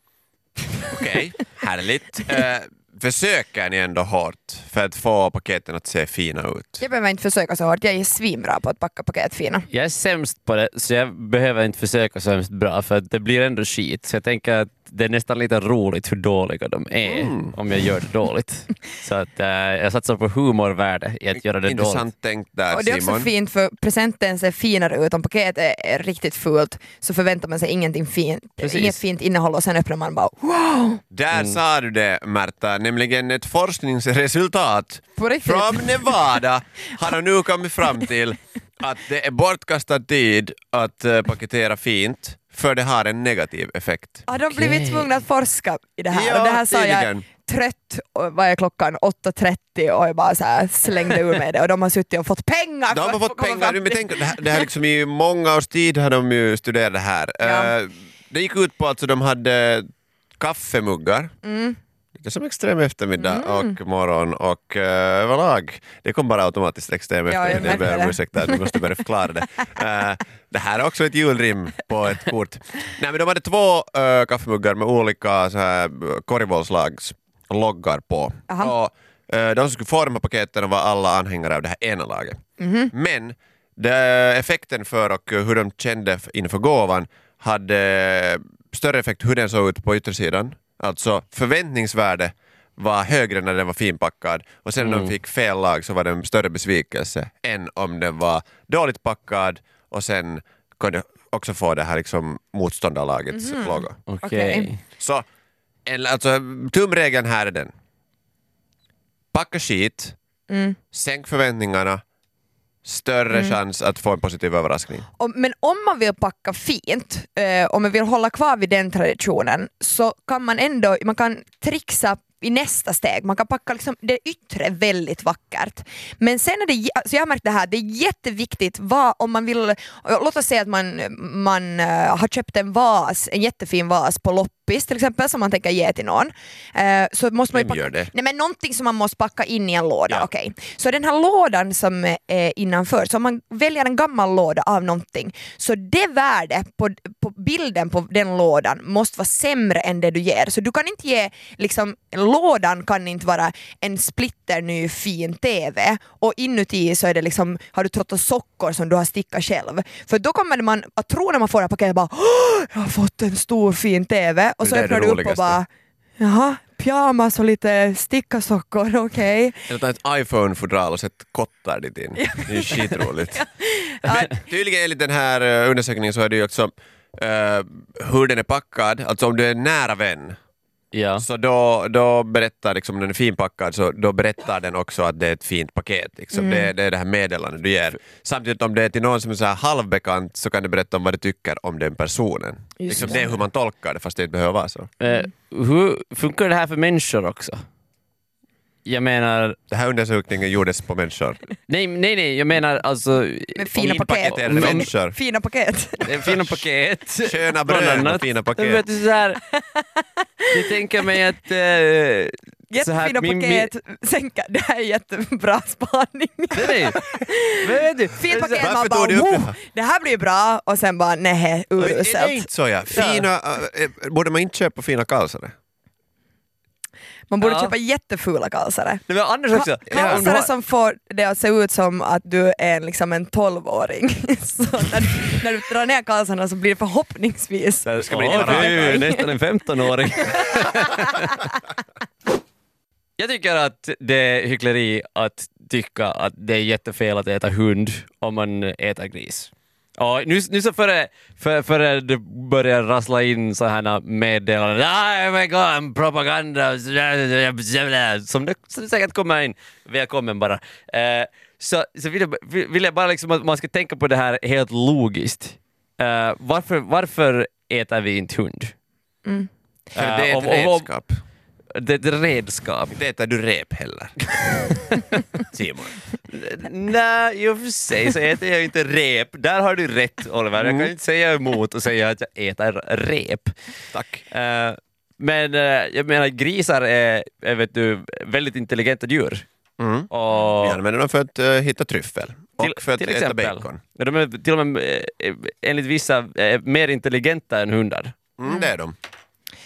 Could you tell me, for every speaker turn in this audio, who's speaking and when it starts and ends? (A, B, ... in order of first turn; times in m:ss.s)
0:00.9-0:06.8 A
0:06.8-0:09.7 B
0:09.7-0:22.0 C
0:17.1-0:17.6 A
0:21.6-0:23.3 A
0:22.7-0:31.0 B
0:28.6-0:29.0 C
0:31.1-0:44.3 A
0:31.3-0:31.6 C
0:35.2-0:36.3 B
0:44.3-0:54.7 B
0:44.5-0:45.2 C
0:46.1-0:47.3 A
0:52.9-1:01.3 A
0:57.4-0:57.7 B
1:01.4-1:01.8 B
1:02.2-1:44.0 A
1:03.2-1:03.8 B
1:07.3-1:08.8 B
1:18.5-1:18.7 B
1:22.6-1:22.9 B
1:34.8-1:35.1 C
1:43.3-1:44.7 B
1:44.1-1:44.8 C
1:45.0-1:45.2 A
1:45.9-1:47.7 A
1:49.3-1:50.2 A
1:50.5-1:50.8 B
1:50.9-1:52.0 A
1:52.8-1:55.1 A
1:55.2-2:49.6 B
2:17.5-2:18.1 A
2:44.6-2:45.6 A
2:49.7-2:53.4 A
2:52.2-2:54.3 B
2:54.1-3:00.4 A
3:00.9-3:01.2 C
3:01.2-3:14.9 A
3:06.3-3:06.7 B
3:12.8-3:13.2 B
3:12.9-3:13.2 C
3:15.0-3:17.6 C
3:18.9-3:19.6 C
3:19.7-3:21.4 A
3:21.7-3:24.9 C
3:23.6-3:26.0 B
3:23.8-3:25.2 A
3:26.0-3:29.4 C
3:26.2-3:26.6 A
3:27.2-3:28.8 A
3:29.5-3:31.0 B
3:30.5-3:33.7 C
3:32.7-3:37.6 B
3:36.5-3:37.0 C
3:37.6-3:38.7 C
3:38.2-3:42.5 B
3:38.3-3:39.6 A
3:41.8-3:45.5 A
3:42.9-3:43.3 C
3:47.3-3:59.3 B
3:47.4-3:47.8 C
3:49.1-3:50.5 C
3:49.9-3:50.3 A
3:57.9-4:01.4 C
3:58.0-3:59.1 A
4:03.2-4:28.7 C
4:29.9-4:30.9 C
4:30.0-4:31.2 A
4:31.8-4:33.0 C
4:32.9-4:34.6 A
4:34.7-4:35.2 C
4:35.5-4:36.0 A
4:36.3-4:43.5 C
4:40.6-4:40.9 A
4:43.9-4:44.2 A
4:44.3-4:49.4 C
4:49.8-4:50.1 A
4:50.1-4:50.8 C
4:50.6-4:53.8 A
4:52.6-4:58.2 C
4:58.4-4:59.0 A
4:58.4-4:58.7 B